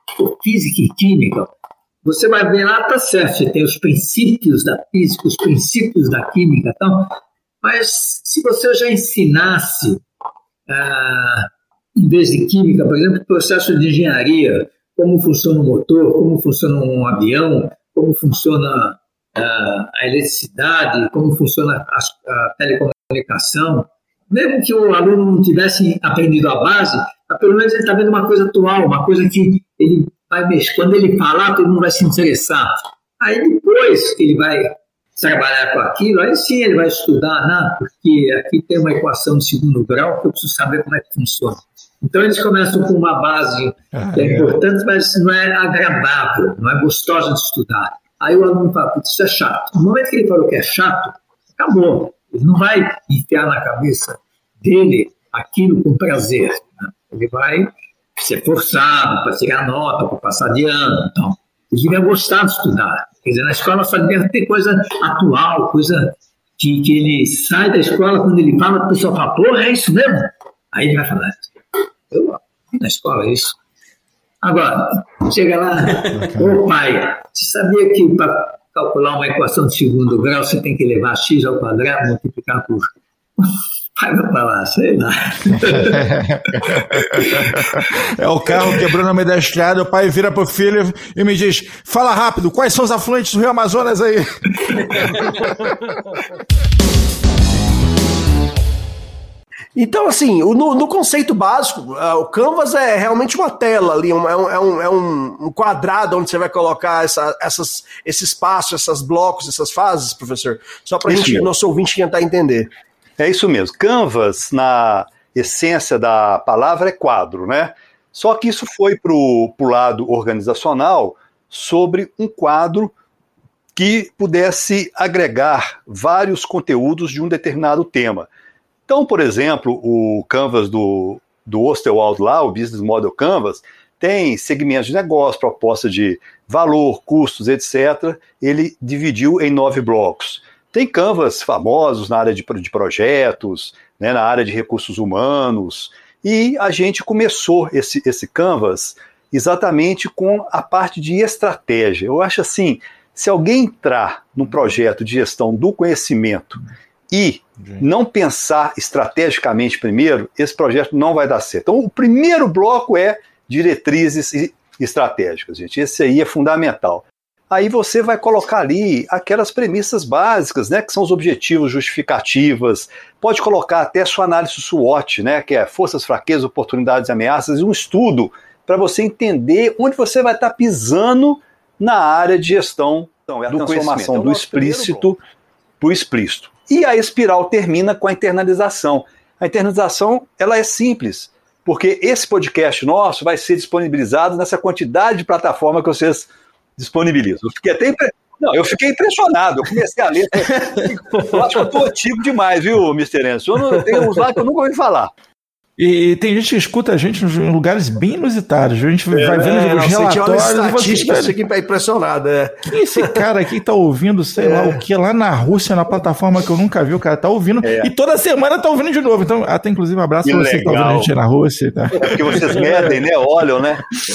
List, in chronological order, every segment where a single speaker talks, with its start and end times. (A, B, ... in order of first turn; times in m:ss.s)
0:00.2-0:01.5 A
0:02.0-0:10.0 A
0:10.7-1:11.5 A
0:43.9-0:44.6 B
1:12.1-1:13.6 A
1:14.4-1:22.9 A
1:16.1-1:16.6 B
1:24.0-1:26.0 A
1:25.7-1:34.2 B
1:35.4-1:35.7 C
1:39.8-1:52.7 C
1:51.1-1:51.4 D
1:53.2-2:02.9 D
2:03.8-2:08.3 D
2:08.9-2:36.6 D
2:37.1-3:05.2 D
2:37.6-2:37.8 B
3:05.8-3:16.2 D
3:16.8-3:17.9 D
3:21.2-3:21.5 C
3:22.4-3:23.4 D
3:23.7-3:24.0 C
3:25.8-3:31.4 B
3:29.3-3:33.2 C
3:32.7-3:42.6 B
3:34.4-3:34.8 C
3:40.3-3:41.0 D
3:42.2-3:43.6 D